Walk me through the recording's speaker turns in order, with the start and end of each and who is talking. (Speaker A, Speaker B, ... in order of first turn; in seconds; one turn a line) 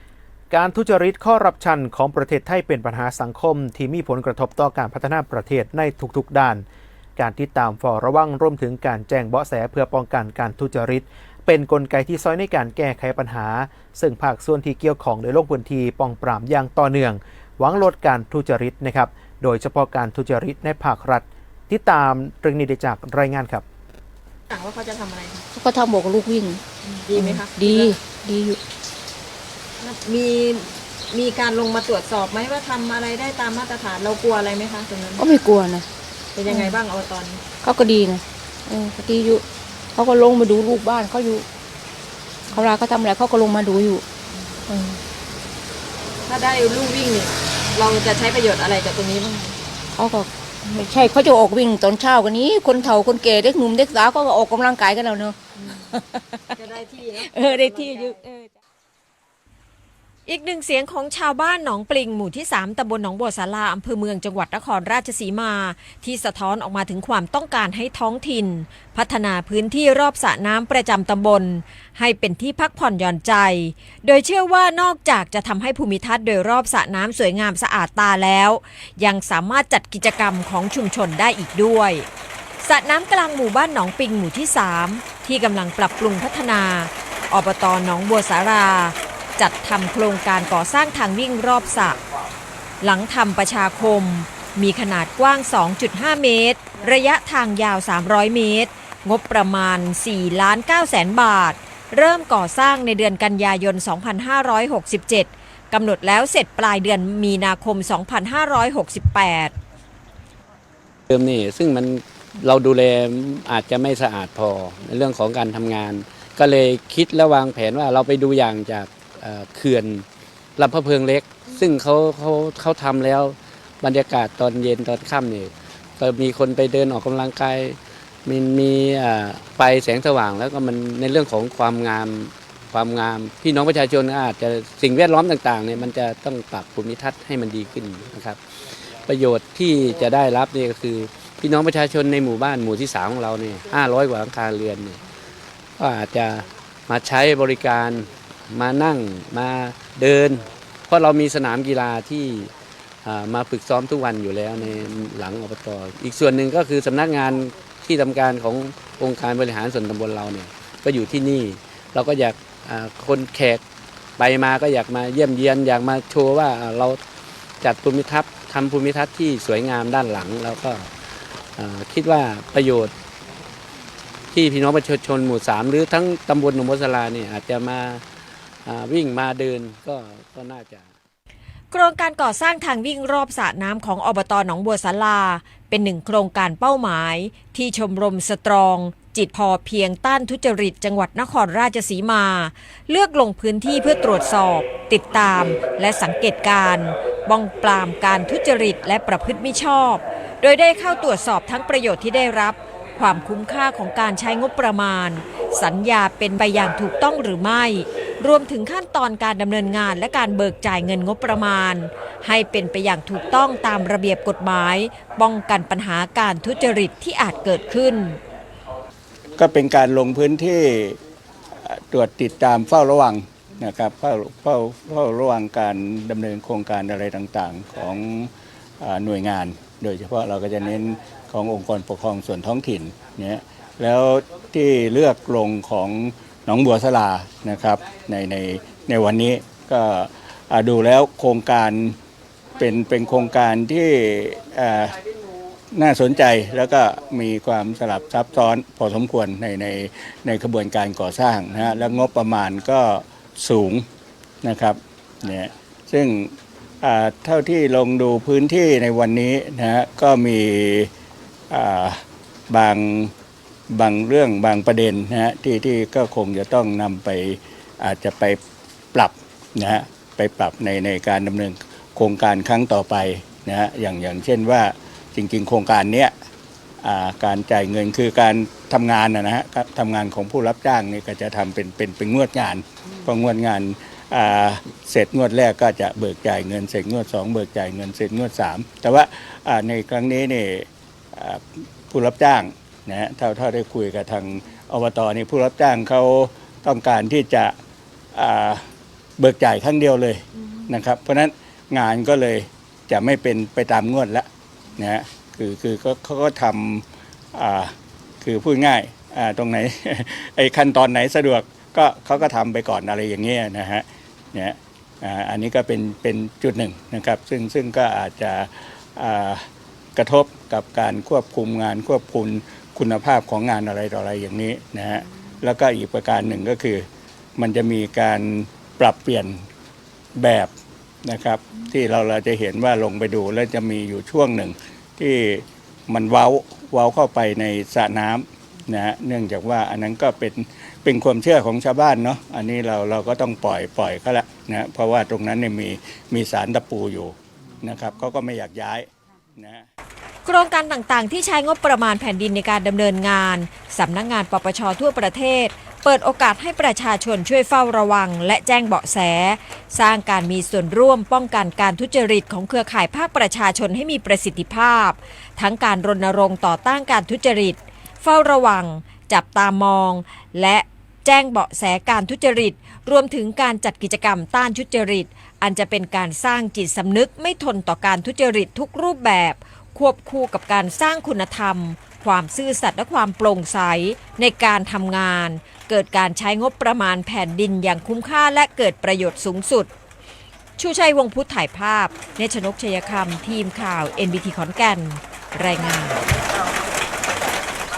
Speaker A: 0.5-6.6
Speaker A: 7.2-23.6
Speaker B: 24.5-25.4
Speaker C: 25.5-26.6
Speaker B: 26.8-28.0
Speaker C: 27.1-28.6
Speaker B: 29.8-35.3
Speaker C: 35.2-35.9
Speaker B: 36.3-37.4
Speaker C: 36.5-36.8
Speaker C: 37.6-41.5
Speaker C: 42.5-44.0
Speaker C: 44.7-45.0
Speaker B: 46.3-49.6
Speaker C: 49.9-55.4
Speaker B: 55.6-55.8
Speaker C: 55.9-56.5
Speaker B: 56.5-58.2
Speaker C: 57.2-58.5
Speaker D: 60.2-82.1
Speaker D: 82.6-92.0
Speaker D: 92.8-109.5
Speaker E: 111.1-120.0
Speaker E: 120.6-145.0
Speaker E: 145.8-152.5
Speaker E: 153.0-163.6
Speaker E: 164.2-167.0
Speaker E: 167.6-170.9
Speaker E: 171.6-172.9
Speaker E: 174.3-178.0
Speaker E: 178.6-180.9
Speaker D: 181.7-218.2
Speaker F: 219.3-221.0
Speaker F: 221.6-242.0
Speaker F: 242.6-245.0
Speaker F: 245.7-253.8
Speaker F: 254.4-260.9
Speaker F: 261.5-263.1
Speaker F: 263.7-268.4
Speaker F: 268.9-276.1
Speaker F: 276.8-297.5
Speaker F: 298.1-298.6
Speaker F: 299.2-329.4
Speaker F: 330.2-330.5
Speaker F: 331.0-349.6
Speaker D: 350.2-389.7
Speaker D: 390.6-396.0